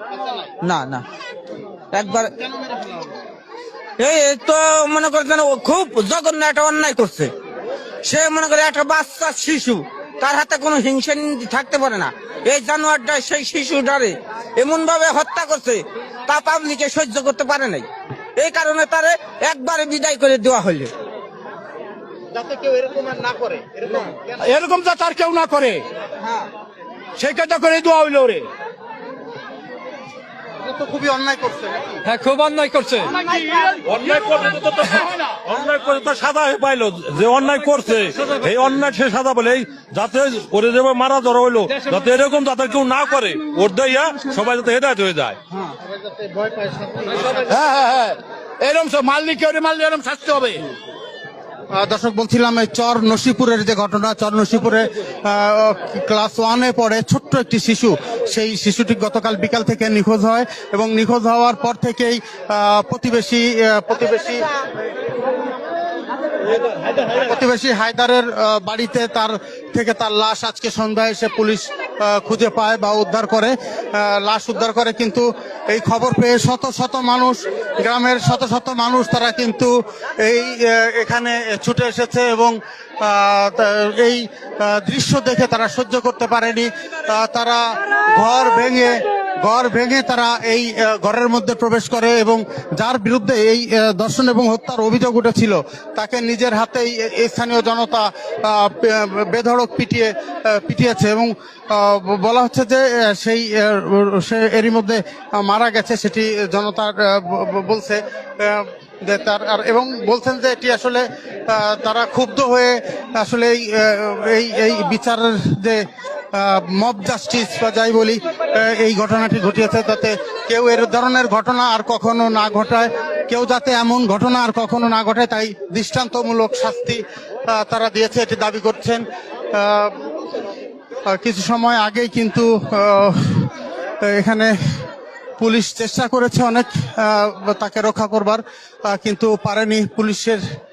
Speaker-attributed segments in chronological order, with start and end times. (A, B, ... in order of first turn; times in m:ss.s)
0:00.2-0:00.5 A
0:00.6-0:01.0 B
0:01.9-0:02.3 B
0:02.3-0:03.1 A
0:04.0-0:07.3 B
0:08.0-0:20.9 B
0:22.3-0:24.3 A
0:24.4-0:25.9 C
0:26.2-0:26.5 B
0:27.2-0:28.5 C
0:30.6-0:32.0 A
0:32.1-0:34.3 C
0:33.8-0:45.4 D
0:35.0-0:35.4 C
0:45.6-0:47.5 A
0:47.3-0:50.7 C
0:51.7-1:04.5 A
1:07.1-2:10.0 A
2:11.1-2:14.9 A
2:15.4-2:20.4 A